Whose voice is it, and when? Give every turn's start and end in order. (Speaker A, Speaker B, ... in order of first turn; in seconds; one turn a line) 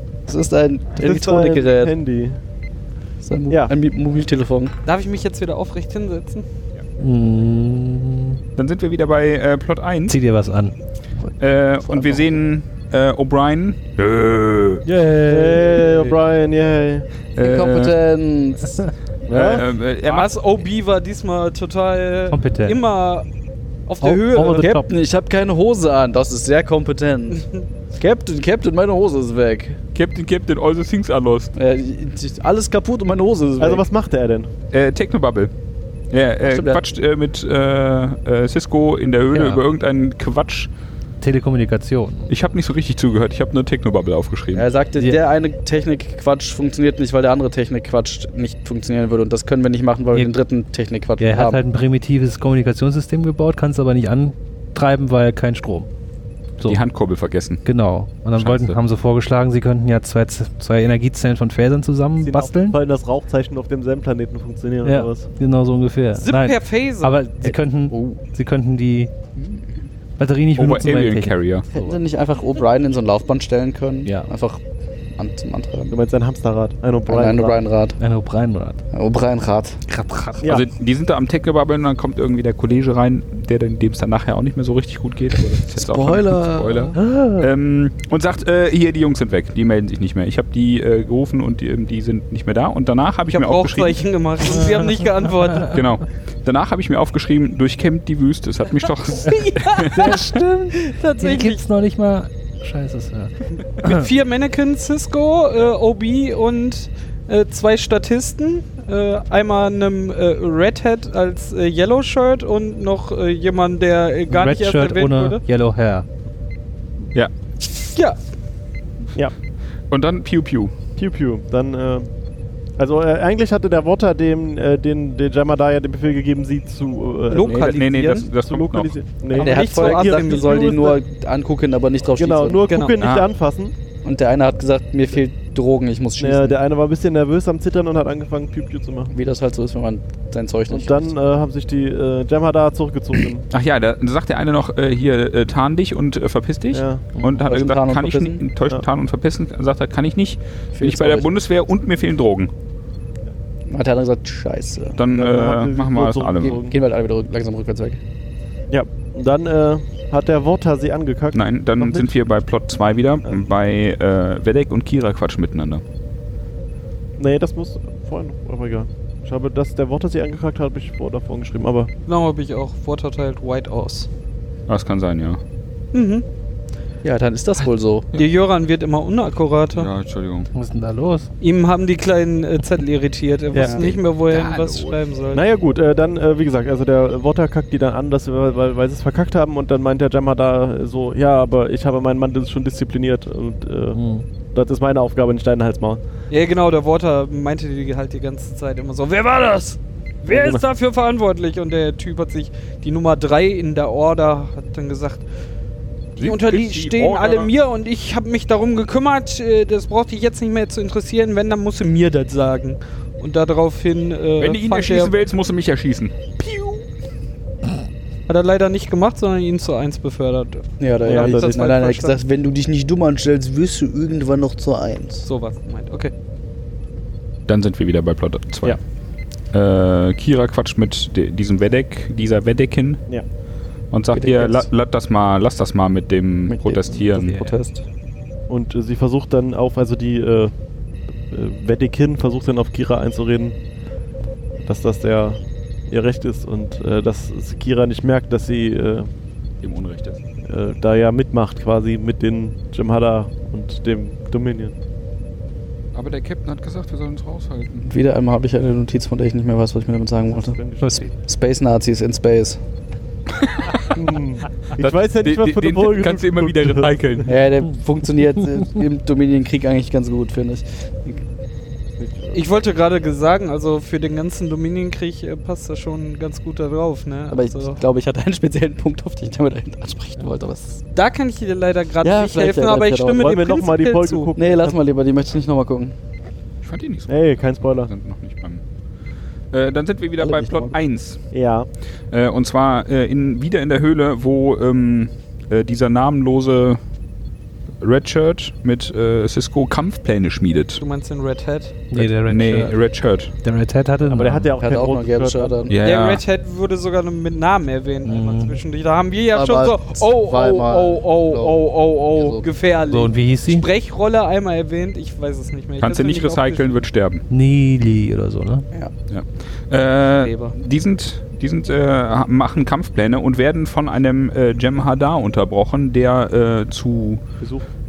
Speaker A: 0.3-1.9
Speaker B: 1.0-2.4
Speaker A: 3.2-4.7
Speaker C: 4.8-6.4
Speaker D: 7.0-8.4
Speaker E: 8.6-10.2
Speaker D: 10.1-11.3
Speaker E: 11.4-14.8
Speaker A: 11.8-12.4
Speaker D: 14.8-16.0
Speaker B: 15.2-17.1
Speaker E: 17.4-17.9
Speaker A: 17.4-18.8
Speaker B: 19.3-19.6
Speaker E: 19.3-20.3
Speaker C: 20.0-23.2
Speaker D: 22.3-22.8
Speaker C: 23.9-24.7
Speaker D: 24.0-24.9
Speaker A: 24.4-29.8
Speaker E: 29.9-31.5
Speaker A: 31.5-33.9
Speaker B: 33.6-34.5
Speaker E: 34.7-35.5
Speaker E: 36.1-40.7
Speaker A: 36.4-36.8
Speaker D: 39.3-39.6
Speaker D: 41.2-42.3
Speaker E: 42.3-44.7
Speaker A: 44.5-51.6
Speaker D: 51.2-55.9
Speaker E: 56.6-57.6
Speaker D: 57.6-62.8
Speaker E: 58.4-58.8
Speaker B: 62.2-65.3
Speaker D: 64.8-69.1
Speaker C: 66.1-67.2
Speaker A: 67.4-68.2
Speaker A: 69.3-69.8
Speaker D: 70.2-72.0
Speaker E: 70.6-71.6
Speaker A: 71.7-74.6
Speaker A: 75.2-76.0
Speaker B: 75.9-77.6
Speaker A: 77.1-78.0
Speaker D: 78.0-78.8
Speaker A: 78.9-79.8
Speaker D: 79.9-80.5
Speaker B: 80.4-80.7
Speaker E: 80.4-94.0
Speaker A: 85.7-87.0
Speaker D: 87.0-87.5
Speaker C: 93.3-95.8
Speaker D: 94.5-95.7
Speaker E: 95.7-100.2
Speaker C: 99.1-100.2
Speaker D: 99.9-104.1
Speaker C: 100.7-101.6
Speaker C: 103.8-115.4
Speaker D: 114.3-116.0
Speaker E: 119.9-120.7
Speaker B: 121.0-122.1
Speaker B: 122.8-127.5
Speaker C: 127.3-128.3
Speaker E: 127.3-128.9
Speaker B: 128.3-131.0
Speaker C: 129.3-130.7
Speaker A: 129.3-132.7
Speaker B: 132.2-133.7
Speaker C: 132.7-132.9
Speaker E: 133.0-133.3
Speaker A: 134.0-136.6
Speaker B: 136.2-139.2
Speaker A: 139.1-141.1
Speaker B: 140.7-143.4
Speaker E: 143.5-152.5
Speaker B: 146.7-147.1
Speaker A: 147.3-148.4
Speaker A: 150.7-151.3
Speaker A: 153.7-155.0
Speaker E: 155.0-156.6
Speaker B: 155.1-156.8
Speaker A: 156.4-158.0
Speaker B: 158.7-162.1
Speaker E: 161.3-165.8
Speaker B: 167.2-171.9
Speaker C: 172.1-174.1
Speaker E: 174.7-175.4
Speaker C: 175.9-176.2
Speaker A: 177.0-178.1
Speaker C: 178.1-179.9
Speaker E: 179.7-180.5
Speaker D: 180.5-181.3
Speaker C: 181.4-185.4
Speaker B: 183.5-183.8
Speaker E: 183.6-184.9
Speaker B: 185.3-194.0
Speaker D: 193.9-194.2
Speaker B: 194.5-196.0
Speaker C: 196.3-205.2
Speaker B: 200.3-200.6
Speaker E: 206.2-207.5
Speaker C: 206.2-215.1
Speaker E: 214.4-216.4
Speaker C: 216.4-216.8
Speaker C: 218.3-222.2
Speaker A: 220.8-225.2
Speaker B: 221.0-221.5
Speaker C: 225.2-226.1
Speaker E: 227.5-228.8
Speaker E: 229.5-233.0
Speaker E: 233.9-237.3
Speaker A: 234.1-234.7
Speaker A: 236.5-237.8
Speaker D: 237.2-237.6
Speaker B: 238.5-240.5
Speaker B: 241.3-243.6
Speaker B: 244.6-249.1
Speaker E: 249.6-250.2
Speaker B: 250.5-254.8
Speaker E: 255.9-257.9
Speaker A: 257.8-260.6
Speaker B: 260.3-261.1
Speaker A: 261.1-262.6
Speaker E: 263.3-264.0
Speaker B: 263.9-267.3
Speaker E: 264.8-267.3
Speaker A: 267.3-271.2
Speaker B: 272.0-272.4
Speaker C: 272.3-277.8
Speaker A: 277.3-280.8
Speaker C: 280.9-284.3
Speaker A: 282.0-283.4
Speaker B: 283.1-284.8
Speaker A: 284.4-285.9
Speaker E: 286.6-288.6
Speaker B: 287.1-287.9
Speaker E: 289.5-291.2
Speaker A: 290.2-290.8
Speaker B: 291.3-291.7
Speaker E: 292.1-296.8
Speaker E: 297.8-300.8
Speaker C: 300.8-301.8
Speaker D: 301.9-302.7
Speaker E: 301.9-303.3
Speaker D: 303.4-304.5
Speaker B: 304.0-305.6
Speaker A: 304.6-305.8
Speaker E: 305.7-306.2
Speaker C: 305.8-316.8
Speaker D: 308.0-308.6
Speaker A: 309.3-312.4
Speaker D: 312.9-313.7
Speaker E: 315.8-317.2
Speaker D: 317.3-318.6
Speaker E: 319.1-327.2
Speaker C: 320.2-320.5